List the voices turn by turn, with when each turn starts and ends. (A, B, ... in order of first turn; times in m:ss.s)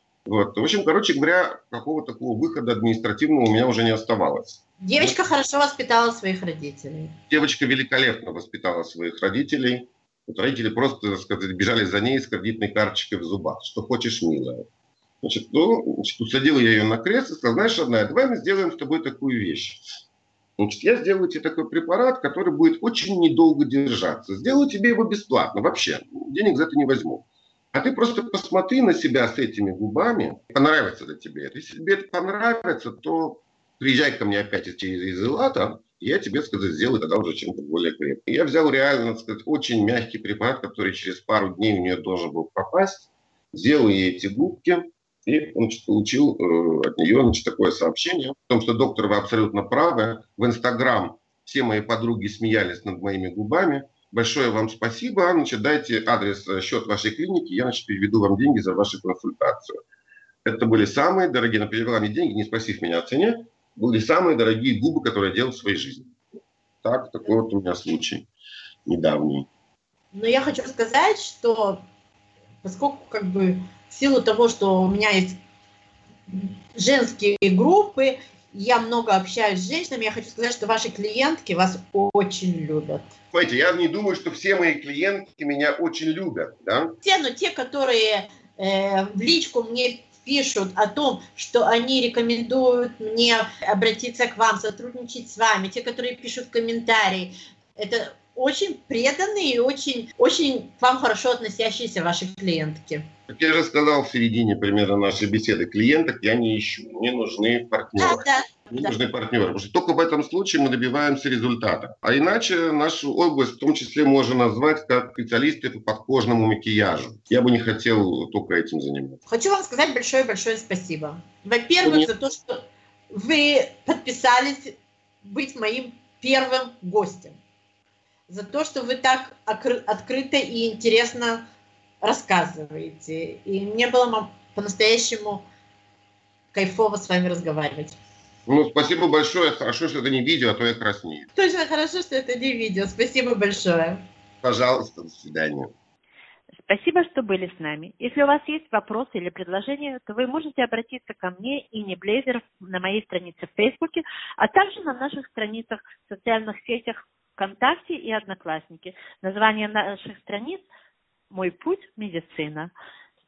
0:00.2-0:05.2 A
0:04.8-0:07.2 B
0:07.3-0:14.6 A
0:15.2-0:19.8 A
0:20.6-0:59.8 A
1:00.4-1:06.1 A
1:06.8-1:08.3 A
1:08.9-1:09.5 A
1:10.1-1:11.8 B
1:12.6-1:15.4 B
1:16.3-1:23.1 B
1:23.3-1:27.0 A
1:27.0-1:43.1 B
1:43.3-1:59.2 A
1:48.0-1:48.9 B
1:59.3-2:07.4 B
2:01.8-2:02.1 A
2:08.3-2:11.4 B
2:12.0-2:15.4 B
2:16.5-2:18.0 B
2:18.5-2:21.3 A
2:21.4-2:24.0 B
2:24.4-2:25.7 A
2:26.6-2:40.6 C
2:41.3-2:42.7 C